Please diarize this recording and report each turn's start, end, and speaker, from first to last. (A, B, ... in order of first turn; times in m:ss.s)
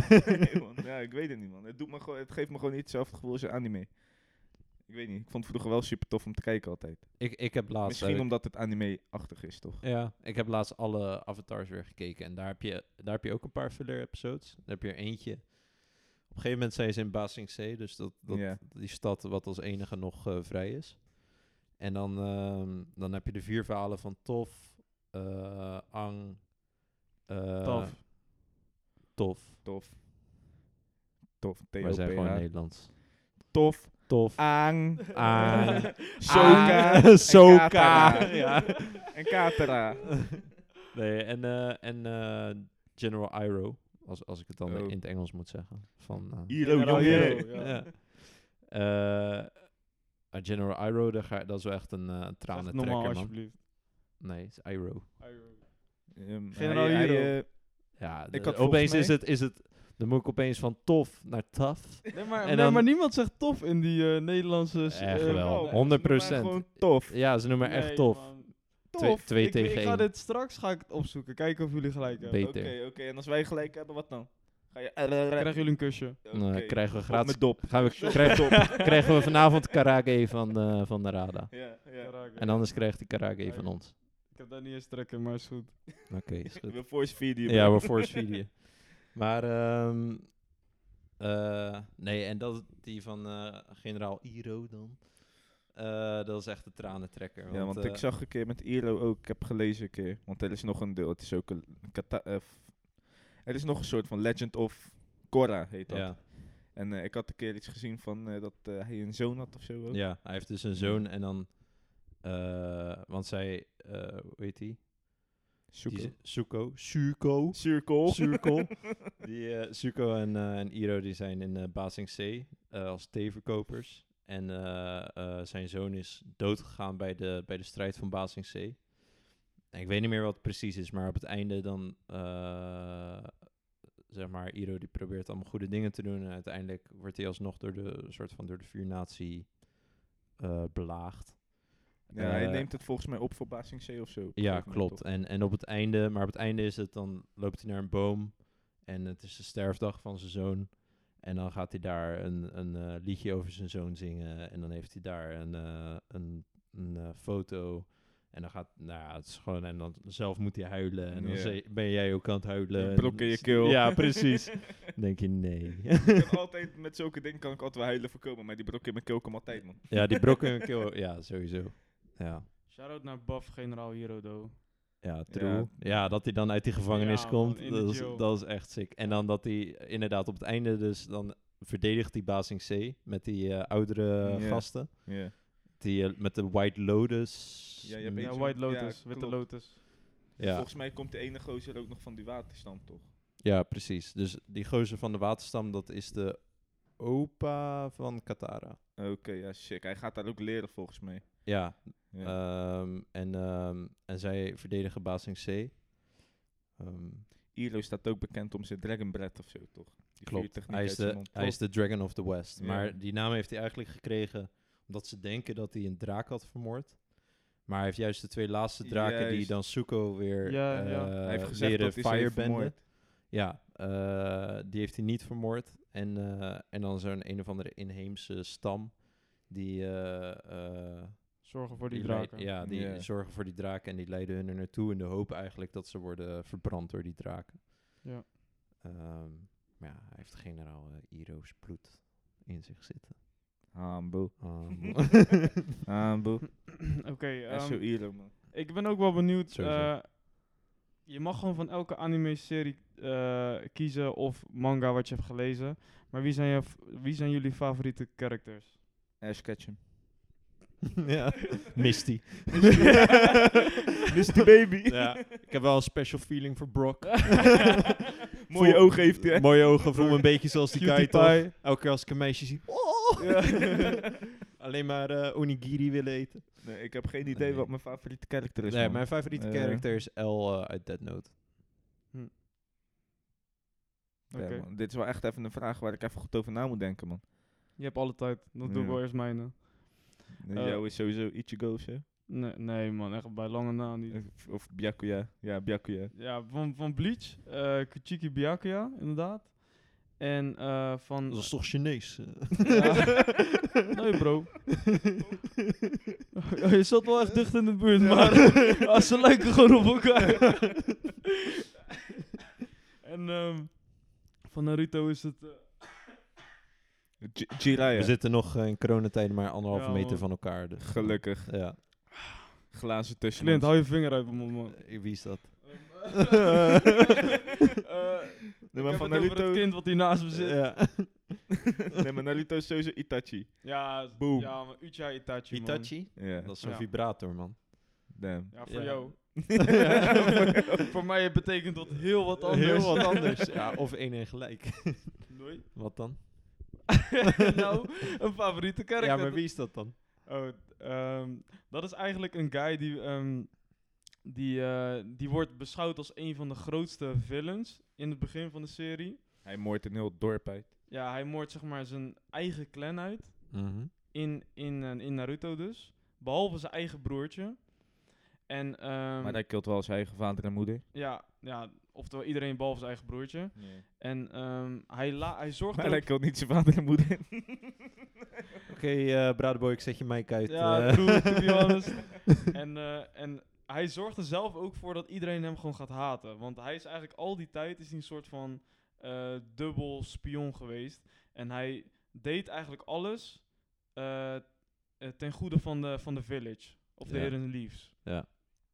0:00.5-0:09.8 A
0:07.2-0:08.3 B
0:09.8-0:28.1 B
0:18.3-0:18.6 A
0:27.6-0:28.0 C
0:29.1-0:29.6 B
0:29.6-0:30.0 A
0:31.4-0:40.4 A
0:31.8-0:33.5 B
0:34.1-0:39.1 B
0:35.5-0:38.6 C
0:40.9-0:55.2 B
0:44.6-0:45.0 A
0:46.1-0:47.9 A
0:46.6-0:47.8 C
0:52.5-0:53.6 C
0:55.2-0:57.4 C
0:56.1-0:59.2 A
0:58.0-1:02.9 B
1:02.1-1:06.5 C
1:04.9-1:10.1 B
1:05.2-1:07.2 A
1:07.6-1:12.4 C
1:08.9-1:09.2 A
1:12.2-1:12.7 B
1:12.3-1:19.1 A
1:15.4-1:16.2 C
1:16.3-1:21.8 B
1:18.1-1:18.9 C
1:21.5-1:22.2 A
1:22.0-1:25.9 C
1:22.3-1:23.9 B
1:26.1-1:30.6 B
1:26.7-1:28.1 A
1:31.2-1:38.0 B
1:37.5-1:51.0 A
1:45.9-1:46.2 B
1:49.9-1:55.4 B
1:55.7-1:56.1 A
1:55.9-2:22.7 B
1:57.5-1:58.8 A
2:22.1-2:25.0 A
2:24.3-2:46.3 B
2:41.1-2:41.6 A
2:42.7-2:44.4 A
2:46.1-2:50.2 A
2:49.9-2:52.5 B
2:52.6-2:54.6 C
2:55.0-3:08.4 B
2:55.3-2:56.0 A
2:56.9-2:58.4 C
3:04.2-3:05.3 A
3:07.8-3:13.1 A
3:08.2-3:09.8 C
3:10.4-3:10.7 B
3:13.4-3:18.8 B
3:19.0-3:22.3 A
3:21.4-3:27.3 B
3:27.5-3:32.9 A
3:30.2-3:58.0 B
3:38.8-3:39.6 A
3:40.4-3:41.1 C
3:41.2-3:42.8 A
3:51.4-3:52.5 C
3:52.6-3:53.1 A
3:58.0-3:58.3 C
3:58.8-4:03.2 B
4:03.7-4:04.9 A
4:04.4-4:05.5 B
4:05.8-4:06.8 A
4:07.0-4:18.7 C
4:07.5-4:08.3 A
4:09.5-4:09.9 B
4:19.2-4:19.8 A
4:21.0-4:23.0 B
4:22.7-4:23.5 C
4:24.1-4:25.3 A
4:24.8-4:27.8 B
4:28.5-4:30.1 A
4:28.5-4:33.8 B
4:29.9-4:31.5 C
4:33.2-4:34.0 C
4:34.4-4:37.9 B
4:36.6-4:39.8 A
4:38.6-4:41.3 B
4:44.3-4:47.2 A
4:44.3-4:44.6 C
4:47.8-4:50.8 C
4:48.6-4:49.0 A
4:50.4-4:52.0 A
4:52.3-4:54.3 C
4:54.1-4:56.1 A
4:56.1-5:02.1 C
5:01.3-5:03.0 B
5:02.7-5:03.4 C
5:02.8-5:03.2 A
5:03.9-5:04.8 C
5:06.5-5:11.0 C
5:08.6-5:08.8 A
5:13.0-5:16.1 C
5:17.2-5:18.1 A
5:17.9-5:21.8 B
5:19.7-5:20.5 C
5:20.8-5:22.0 A
5:22.7-5:23.7 A
5:23.4-5:26.6 C
5:24.8-5:26.7 B
5:27.8-5:31.0 C
5:28.7-5:29.7 A
5:30.3-5:31.6 B
5:32.0-5:34.6 A
5:33.6-5:36.8 C
5:35.5-5:40.1 B
5:36.2-5:36.5 A
5:38.1-5:40.5 A
5:38.5-5:43.6 C
5:42.4-5:46.9 B
5:45.3-5:45.6 C
5:47.2-5:59.2 C
5:49.0-5:50.0 B
5:59.4-6:00.7 A
6:00.9-6:09.4 C
6:03.5-6:03.9 B
6:09.2-6:10.8 A
6:10.9-6:16.1 C
6:13.5-6:13.8 A
6:15.7-6:17.7 A
6:18.7-6:21.6 B
6:20.4-6:38.4 C
6:37.0-6:38.3 B